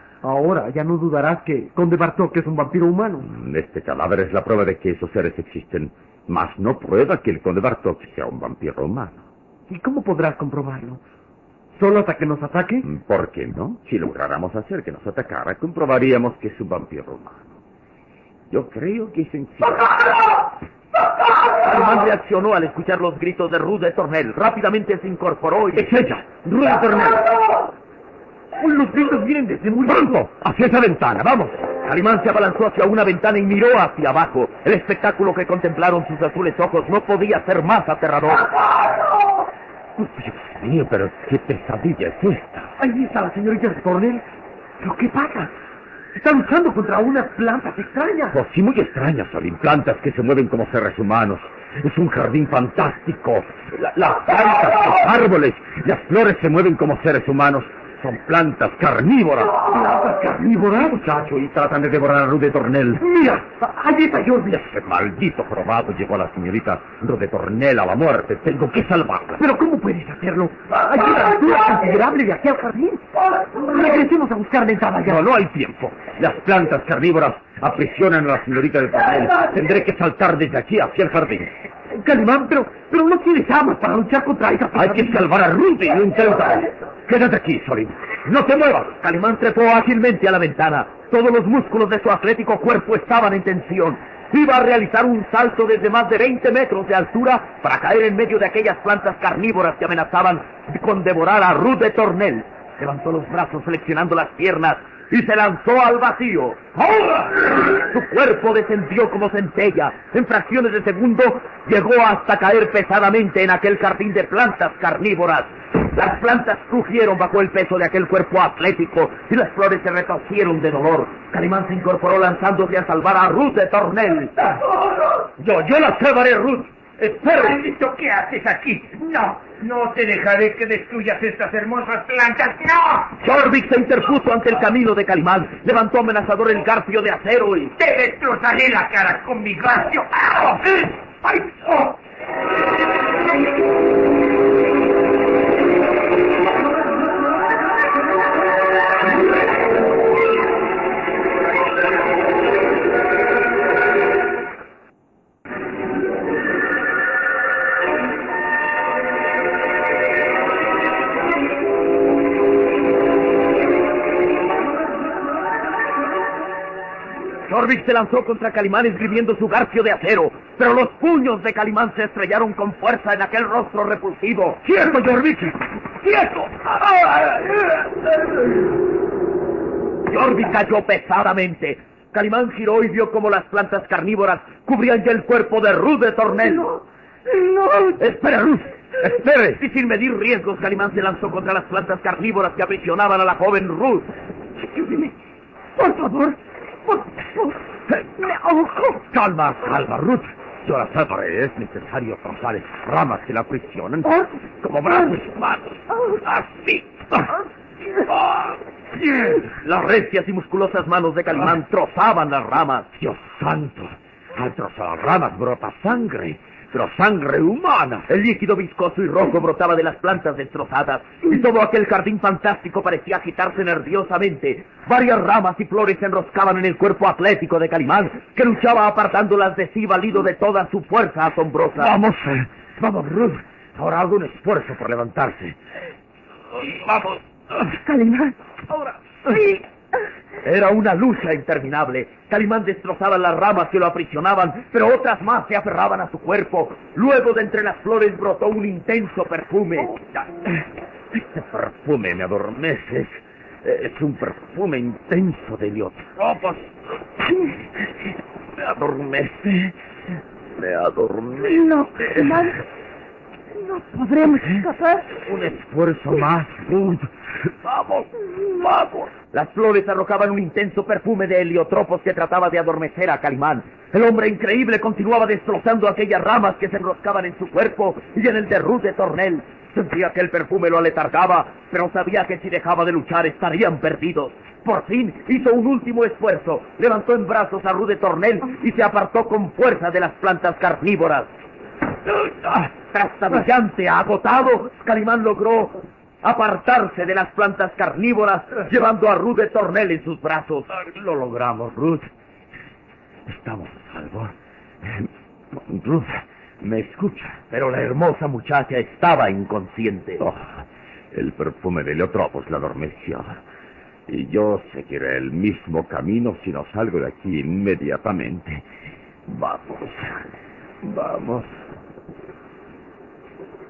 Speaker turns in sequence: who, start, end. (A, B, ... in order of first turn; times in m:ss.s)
0:00.2-0:03.3 A
0:03.2-0:09.3 B
0:09.7-0:11.0 A
0:11.8-0:12.9 A
0:12.8-0:17.6 B
0:18.5-0:20.1 B
0:21.6-0:25.9 C
0:25.8-0:27.3 B
0:28.6-0:30.0 A
0:29.8-0:31.6 B
0:31.8-0:38.5 C
0:40.0-0:42.7 B
0:42.8-0:44.2 A
0:44.8-0:45.5 A
0:46.1-0:48.4 A
0:48.3-0:59.7 B
0:59.7-1:01.0 A
1:00.7-1:03.1 B
1:03.0-1:04.5 A
1:04.5-1:09.5 B
1:09.4-1:15.2 A
1:15.0-1:21.5 B
1:21.9-1:25.2 A
1:24.7-1:28.8 B
1:28.8-2:04.3 C
2:07.2-2:13.1 D
2:13.2-2:17.7 C
2:17.8-2:21.9 D
2:47.5-2:55.0 C
2:56.0-2:57.5 C
3:00.1-3:06.7 C
3:07.3-3:07.8 E
3:08.1-3:08.5 C
3:09.0-3:09.6 B
3:09.4-3:14.1 C
3:17.9-3:27.3 B
3:28.1-3:29.3 B
3:29.4-3:32.9 C
3:33.0-3:38.1 B
3:38.1-3:51.9 C
3:51.8-3:55.6 B
3:56.6-3:57.2 B
3:57.6-3:58.4 E
4:00.4-4:10.0 C
4:11.1-4:16.6 B
4:18.6-4:19.7 B
4:20.6-4:22.5 B
4:21.4-4:22.6 E
4:23.6-4:25.2 E
4:25.2-4:28.1 B
4:28.6-4:29.1 B
4:29.2-4:51.3 C
4:52.1-5:00.8 C
5:00.8-5:02.1 B
5:03.2-5:07.4 B
5:07.5-5:10.2 C
5:10.2-5:13.4 B
5:14.1-5:18.6 B
5:19.3-5:20.2 B
5:20.8-5:21.5 B